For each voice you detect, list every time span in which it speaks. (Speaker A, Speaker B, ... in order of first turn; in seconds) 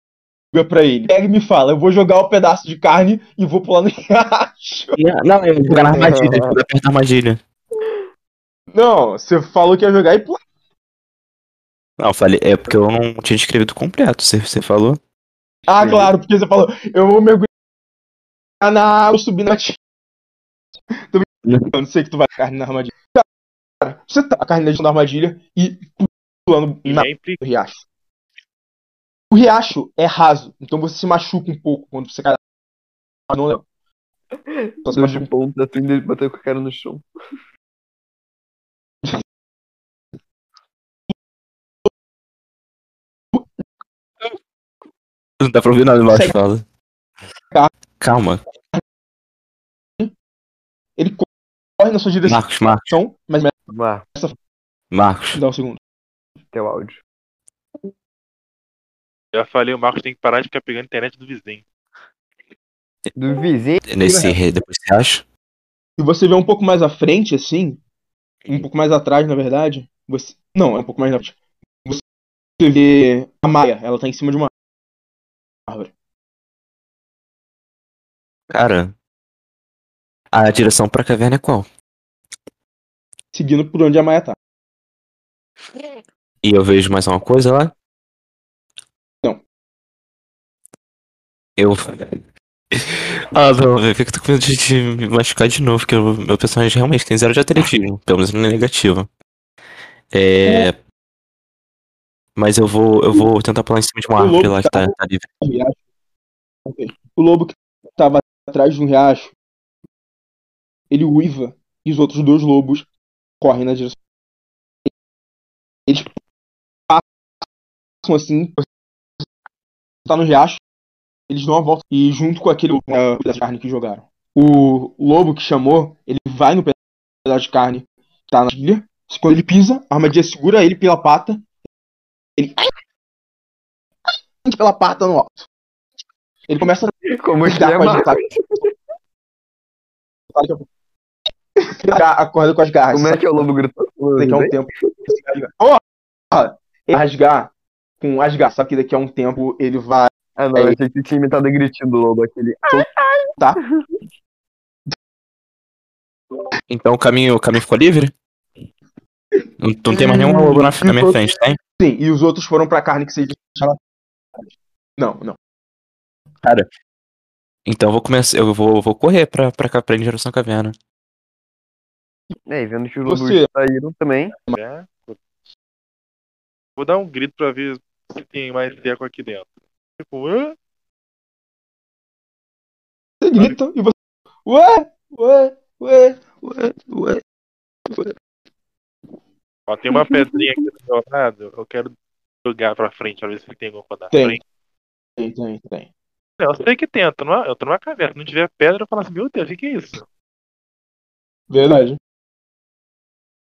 Speaker A: 0.5-5.0, 8.7-10.4, 15.7-17.5, 18.6-19.8, 21.1-23.2, 23.8-27.8, 29.3-32.4, 33.3-33.6, 34.9-35.2, 43.3-43.6, 46.1-46.4, 51.0-51.3, 51.8-53.5, 55.3-55.8, 66.0-67.8, 68.5-72.0, 72.6-74.5, 83.3-84.4, 104.2-105.8, 106.7-109.3, 110.9-112.9, 113.4-114.0, 115.9-116.1, 118.0-118.6, 120.0-120.6, 121.3-131.4, 132.4-132.6, 134.4-135.5, 136.5-138.2, 140.3-140.7, 141.8-143.5, 144.2-150.8, 159.9-163.8, 165.0-165.4, 173.1-173.5, 183.2-183.9, 184.4-187.2, 187.9-188.2, 194.1-194.4, 195.2-195.9, 201.5-202.0
Speaker B: 5.0-7.4, 12.0-15.0, 45.4-46.6, 48.0-48.4, 52.2-52.9, 54.9-55.4, 63.8-65.2, 78.5-78.9, 80.3-81.7, 86.4-87.7, 91.6-92.2, 92.7-99.1, 100.1-100.8, 102.3-105.2, 156.7-158.1, 159.6-161.6, 166.4-166.7, 167.7-170.7
Speaker C: 5.9-6.6, 15.8-16.1, 34.5-37.0, 53.7-54.0, 56.5-57.0, 63.1-63.9, 137.0-138.7, 142.9-145.1, 150.3-153.9, 172.5-174.3
Speaker D: 26.9-27.4, 59.3-61.6, 174.6-175.2, 176.8-180.5, 189.7-191.9, 192.4-194.4, 196.4-200.0